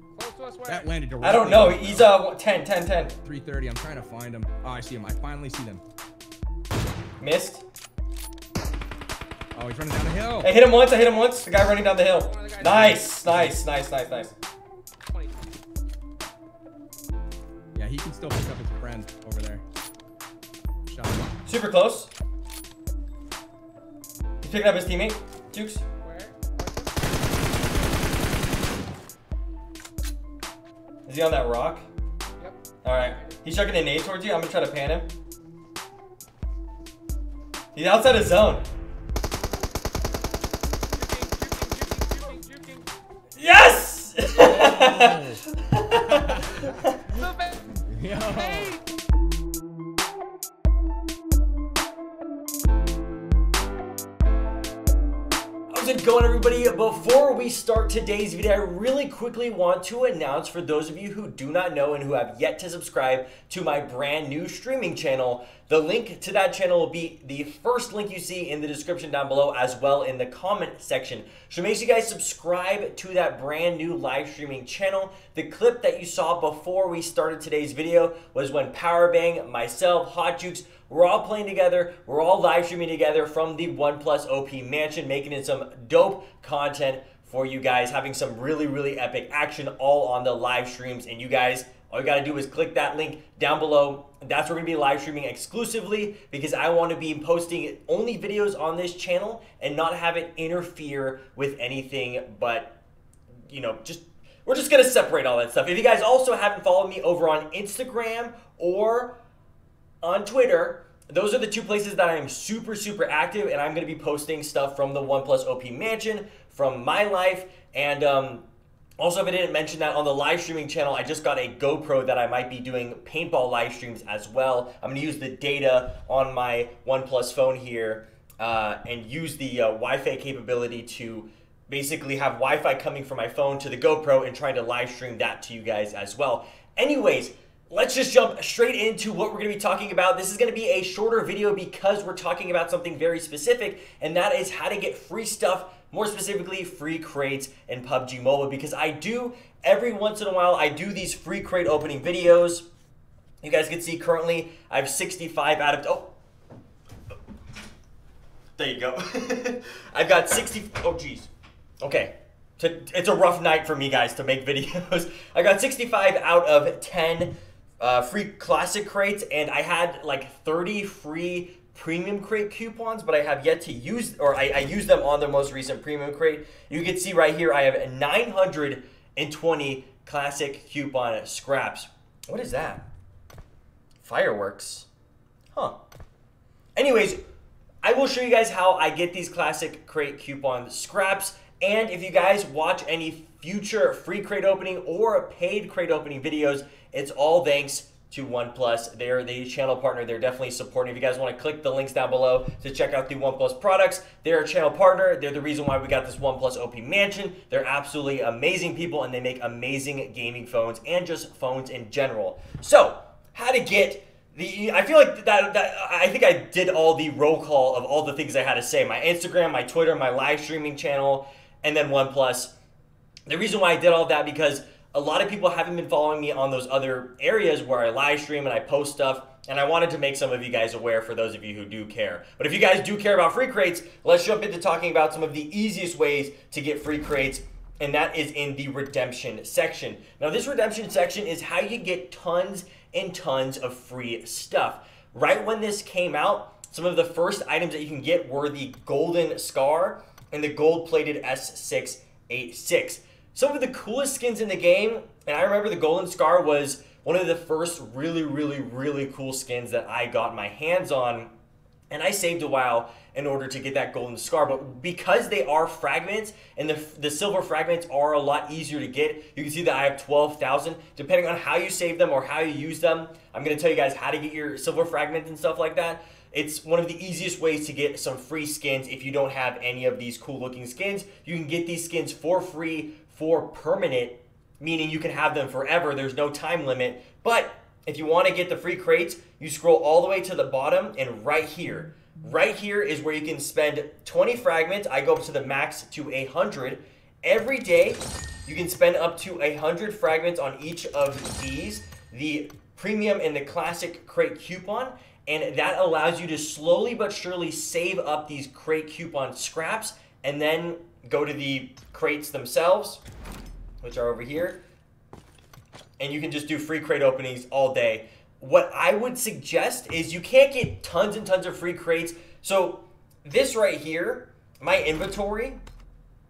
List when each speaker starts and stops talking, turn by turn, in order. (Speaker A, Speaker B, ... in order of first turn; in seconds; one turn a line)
Speaker A: 0.2-0.9
Speaker B: 0.7-2.1
Speaker C: 1.2-3.2
Speaker B: 3.2-5.8
Speaker C: 7.2-7.7
Speaker B: 9.6-10.5
Speaker C: 10.4-14.3
Speaker A: 11.8-13.0
Speaker B: 12.6-13.6
Speaker A: 15.1-15.3
Speaker B: 17.8-19.6
Speaker B: 20.9-21.3
Speaker C: 21.5-22.1
Speaker C: 24.4-25.8
Speaker A: 26.0-26.9
Speaker C: 31.1-31.9
Speaker A: 32.4-33.4
Speaker C: 32.8-35.1
Speaker C: 37.8-38.7
Speaker A: 40.9-42.9
Speaker C: 43.4-47.0
Speaker B: 44.4-45.4
Speaker B: 46.1-46.8
Speaker A: 47.1-48.8
Speaker B: 47.9-48.8
Speaker C: 55.7-102.8
Speaker C: 103.5-109.2
Speaker C: 110.0-118.5
Speaker C: 119.0-152.7
Speaker C: 153.4-156.1
Speaker C: 158.6-161.3
Speaker C: 161.8-182.8
Speaker C: 184.0-184.9
Speaker C: 186.8-187.2
Speaker C: 187.8-222.5
Speaker C: 223.3-261.3
Speaker C: 261.9-313.0
Speaker C: 313.8-314.6
Speaker C: 316.0-325.6